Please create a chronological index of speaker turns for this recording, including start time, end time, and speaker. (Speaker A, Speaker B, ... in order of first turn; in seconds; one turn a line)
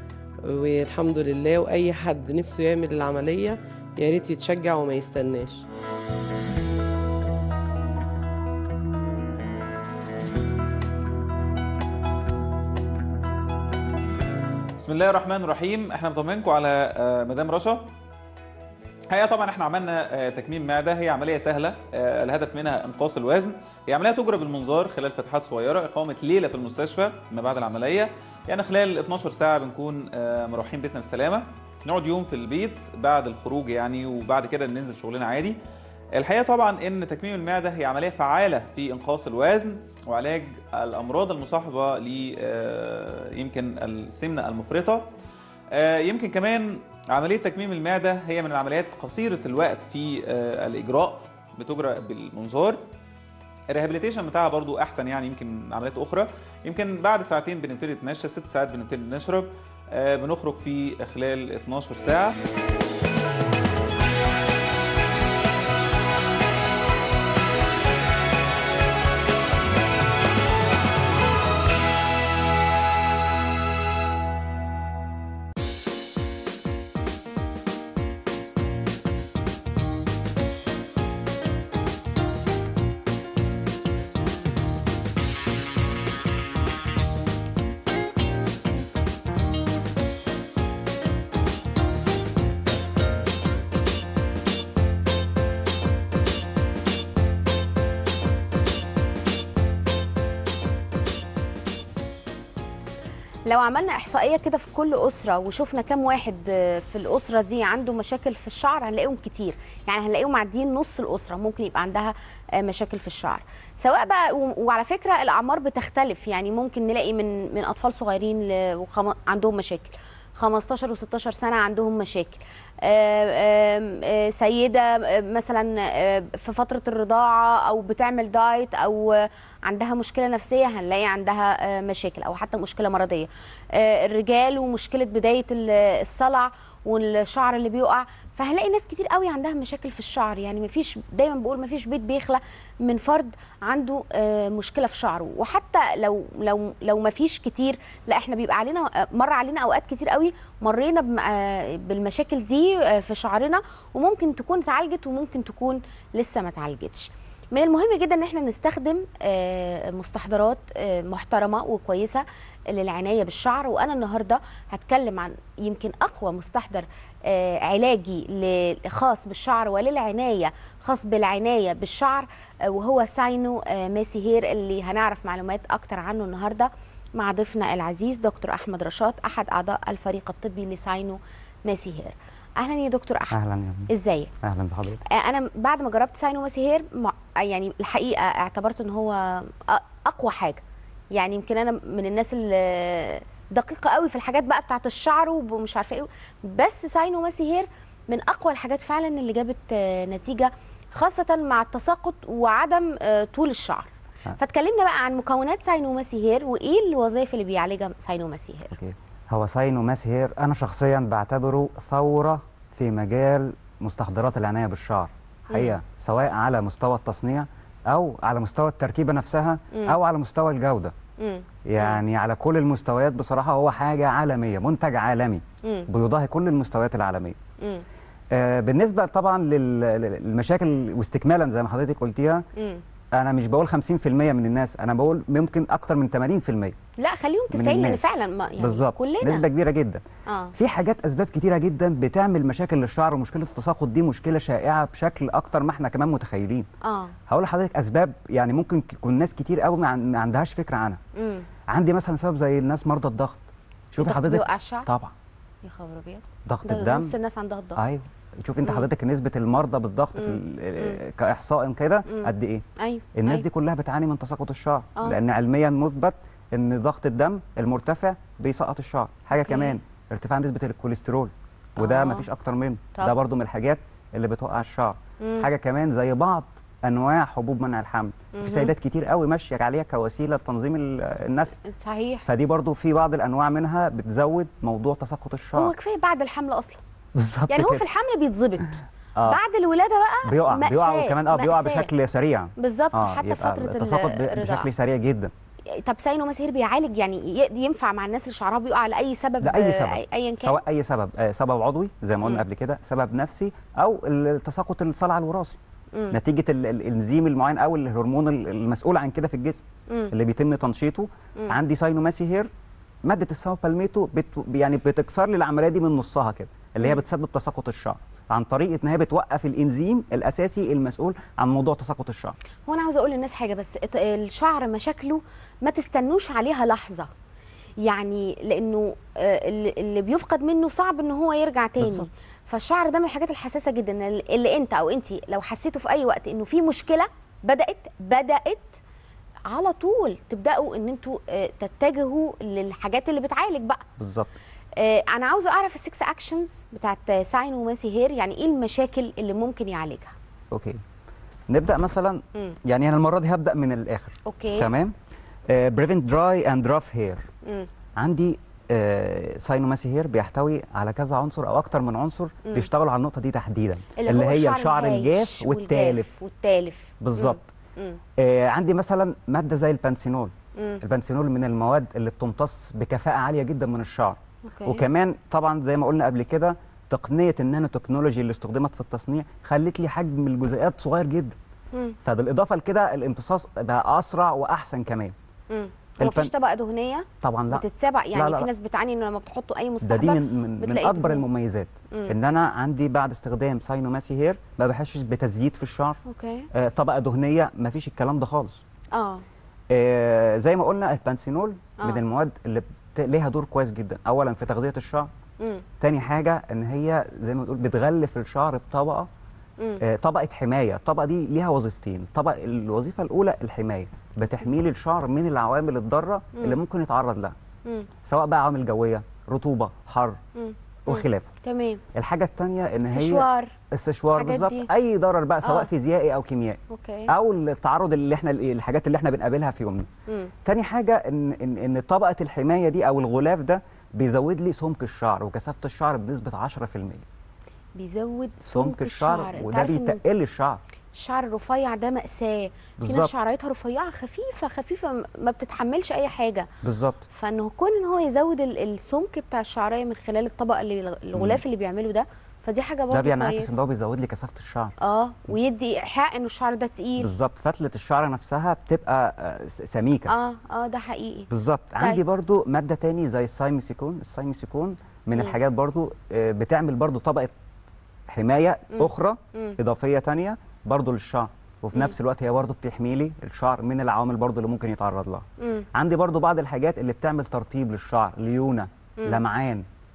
Speaker A: 0.4-5.7
Speaker B: 14.8-17.9
Speaker B: 19.1-35.6
Speaker B: 36.1-45.1
Speaker B: 45.7-52.8
Speaker B: 53.7-62.4
Speaker C: 103.5-183.4
Speaker D: 183.3-183.9
Speaker C: 183.9-184.3
Speaker D: 184.4-185.0
Speaker C: 185.0-190.6
Speaker C: 191.1-208.8
Speaker D: 208.7-220.9
Speaker C: 215.5-215.8
Speaker C: 221.2-222.0
Speaker D: 221.7-227.4
Speaker C: 225.6-225.9
Speaker C: 227.6-227.8
Speaker D: 228.3-232.4
Speaker C: 232.6-232.8
Speaker D: 233.1-236.8
Speaker C: 237.0-239.4
Speaker D: 237.5-240.0
Speaker C: 240.3-240.5
Speaker D: 240.6-246.7
Speaker C: 246.8-247.1
Speaker D: 247.3-251.0
Speaker C: 251.1-251.4
Speaker D: 251.7-253.4
Speaker D: 253.9-255.1
Speaker C: 254.0-254.9
Speaker C: 255.6-257.8
Speaker D: 256.4-257.1
Speaker D: 257.8-262.6
Speaker C: 260.1-261.0
Speaker C: 262.1-263.4
Speaker D: 263.1-281.5
Speaker C: 269.3-269.8
Speaker C: 271.8-272.3
Speaker C: 275.2-275.5
Speaker C: 278.3-278.7
Speaker C: 281.6-282.2
Speaker D: 282.2-285.7
Speaker C: 285.5-286.8
Speaker D: 287.1-287.8
Speaker C: 287.5-291.9
Speaker D: 290.2-295.3
Speaker C: 292.6-294.7
Speaker C: 295.7-300.6
Speaker D: 299.4-305.6
Speaker D: 306.1-312.5
Speaker C: 309.9-310.1
Speaker D: 313.0-322.4
Speaker C: 322.6-327.1
Speaker C: 327.8-338.8
Speaker D: 331.8-332.1
Speaker C: 339.5-343.8
Speaker D: 344.0-344.3
Speaker C: 344.8-350.1
Speaker D: 350.5-350.8
Speaker D: 351.5-354.9
Speaker C: 354.2-354.7
Speaker D: 355.5-357.2
Speaker C: 357.4-357.7
Speaker D: 358.0-366.1
Speaker C: 364.0-368.0
Speaker D: 367.0-367.5
Speaker D: 368.2-381.4
Speaker C: 370.6-370.8
Speaker C: 374.4-374.8
Speaker D: 382.0-385.1
Speaker C: 385.5-391.3
Speaker D: 386.0-386.3
Speaker D: 387.2-388.5
Speaker D: 389.8-396.0
Speaker C: 391.9-392.1
Speaker C: 396.0-396.5
Speaker D: 396.5-398.6
Speaker C: 398.9-399.2
Speaker D: 399.7-405.1
Speaker C: 405.4-405.6
Speaker D: 405.8-409.1
Speaker D: 409.8-417.3
Speaker C: 417.6-417.9
Speaker D: 418.0-420.2
Speaker C: 420.3-421.8
Speaker D: 420.9-421.3
Speaker D: 421.9-429.9
Speaker C: 422.9-423.5
Speaker C: 424.1-424.7
Speaker C: 425.4-425.7
Speaker C: 426.7-427.1
Speaker D: 430.4-437.1
Speaker C: 437.8-440.0
Speaker D: 438.4-440.6
Speaker C: 440.9-446.5
Speaker D: 442.8-443.1
Speaker D: 446.6-447.0
Speaker C: 447.1-453.6
Speaker D: 451.1-451.4
Speaker D: 452.9-454.7
Speaker C: 454.8-457.1
Speaker D: 457.0-460.1
Speaker C: 460.1-462.0
Speaker D: 461.3-467.3
Speaker D: 468.1-479.6
Speaker C: 468.7-469.6
Speaker C: 475.4-475.6
Speaker C: 479.0-479.2